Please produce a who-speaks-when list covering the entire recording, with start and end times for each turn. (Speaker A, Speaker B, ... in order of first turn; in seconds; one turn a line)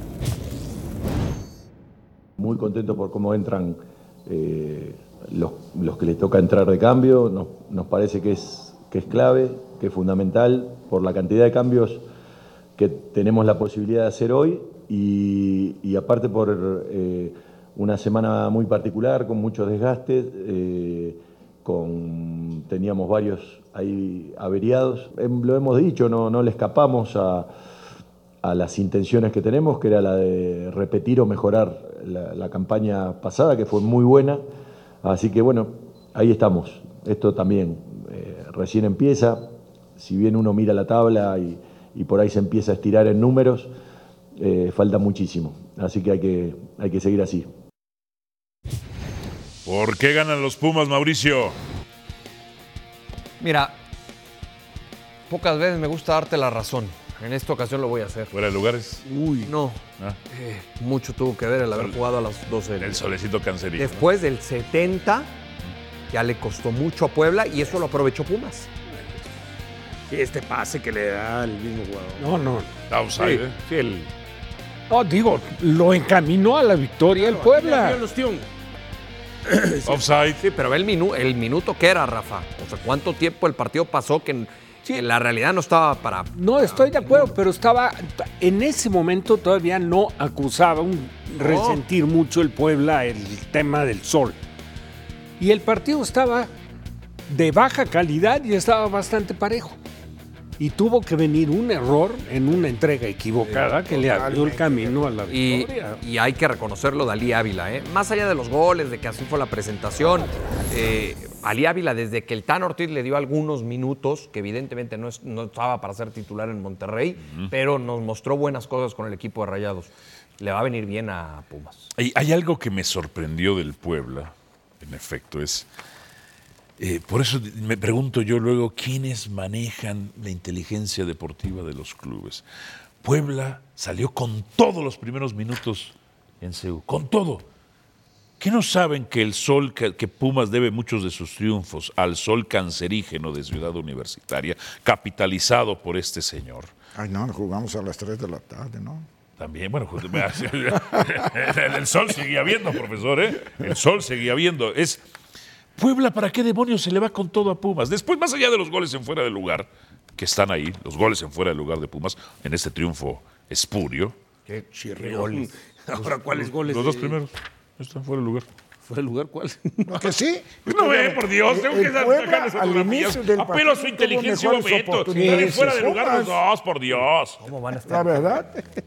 Speaker A: 2.4-12.0
Speaker A: 12.8-27.5
Speaker A: 28.4-34.4
Speaker A: 35.0-43.7
Speaker A: 44.4-47.5
Speaker B: 49.6-51.5
Speaker C: 53.4-53.8
Speaker C: 55.3-58.3
Speaker B: 58.3-59.0
Speaker C: 59.4-63.0
Speaker B: 62.8-64.0
Speaker C: 63.8-65.3
Speaker C: 66.1-68.7
Speaker D: 70.1-72.2
Speaker E: 72.2-72.7
Speaker B: 72.9-73.6
Speaker D: 73.2-74.1
Speaker E: 74.9-78.0
Speaker D: 77.2-78.5
Speaker D: 79.5-80.0
Speaker B: 79.8-80.4
Speaker C: 80.4-87.3
Speaker E: 86.3-94.4
Speaker C: 91.4-91.8
Speaker E: 95.4-96.5
Speaker E: 97.3-99.8
Speaker E: 100.6-106.0
Speaker F: 103.6-105.0
Speaker C: 105.3-121.9
Speaker B: 122.0-125.7
Speaker B: 126.8-132.4
Speaker B: 133.0-137.4
Speaker B: 138.4-146.7
Speaker F: 146.9-149.1
Speaker B: 149.4-155.0
Speaker B: 155.8-164.1
Speaker C: 164.5-165.5
Speaker D: 164.7-167.2
Speaker B: 166.3-168.4
Speaker D: 168.9-170.1
Speaker F: 169.9-176.4
Speaker B: 170.7-177.4
Speaker E: 175.1-175.8
Speaker C: 177.4-178.7
Speaker F: 177.9-178.6